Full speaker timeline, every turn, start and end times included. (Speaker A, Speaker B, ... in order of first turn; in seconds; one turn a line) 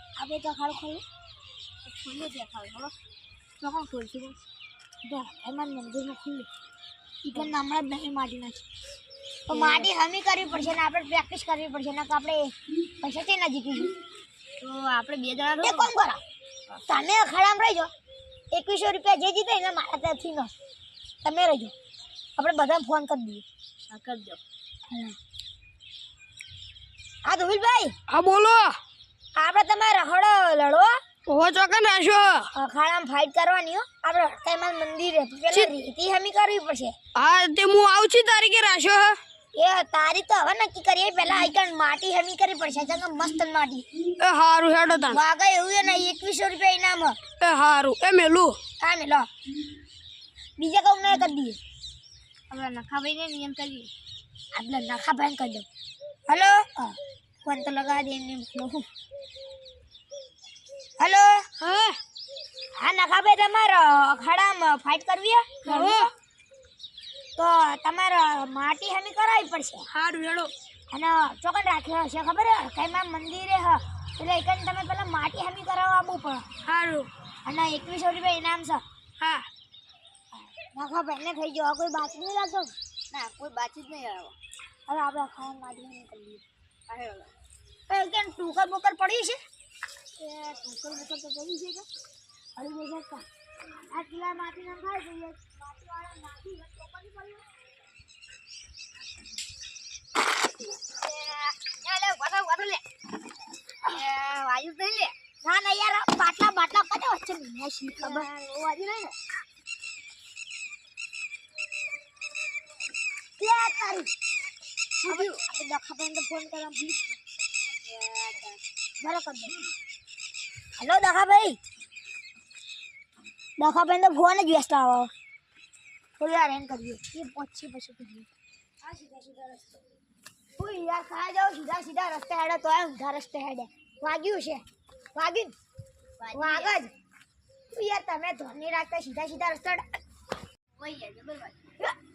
Speaker A: 0.2-1.0
Speaker B: 1.8-2.9
Speaker B: 3.6-4.4
Speaker A: 5.0-6.5
Speaker B: 7.2-7.5
Speaker A: 7.3-8.6
Speaker A: 9.5-13.9
Speaker B: 9.5-9.9
Speaker B: 14.6-15.9
Speaker A: 15.6-16.2
Speaker A: 16.9-17.9
Speaker A: 18.5-20.5
Speaker A: 21.2-21.7
Speaker A: 22.4-23.4
Speaker B: 23.9-24.4
Speaker A: 24.9-25.1
Speaker A: 27.2-27.9
Speaker C: 28.1-28.8
Speaker A: 29.4-31.0
Speaker C: 31.2-32.5
Speaker A: 32.5-36.9
Speaker C: 37.1-39.2
Speaker A: 39.5-43.9
Speaker C: 44.2-45.2
Speaker A: 45.0-47.2
Speaker C: 47.4-48.6
Speaker A: 48.8-49.3
Speaker A: 50.6-51.6
Speaker B: 52.5-53.9
Speaker A: 54.5-55.7
Speaker A: 56.3-58.9
Speaker A: 61.0-61.4
Speaker C: 61.6-62.0
Speaker A: 62.8-66.1
Speaker C: 65.6-66.1
Speaker A: 67.3-69.9
Speaker C: 69.9-70.5
Speaker A: 70.9-76.5
Speaker C: 76.7-77.1
Speaker A: 77.4-78.8
Speaker C: 79.2-79.5
Speaker A: 80.7-82.7
Speaker B: 83.1-84.3
Speaker A: 84.9-86.4
Speaker B: 86.9-87.3
Speaker A: 87.9-89.4
Speaker A: 90.2-91.6
Speaker A: 92.5-93.2
Speaker A: 93.9-97.4
Speaker B: 100.9-102.8
Speaker B: 103.8-105.1
Speaker A: 105.4-108.3
Speaker B: 108.0-109.1
Speaker A: 113.4-114.1
Speaker B: 115.0-115.4
Speaker A: 115.0-117.2
Speaker B: 117.9-118.6
Speaker A: 119.0-119.6
Speaker A: 120.8-121.6
Speaker A: 123.6-125.1
Speaker A: 126.2-128.3
Speaker A: 128.8-129.8
Speaker A: 130.6-134.6
Speaker A: 135.1-135.5
Speaker B: 136.2-136.8
Speaker A: 136.3-136.9
Speaker A: 137.7-139.8
Speaker B: 140.8-141.6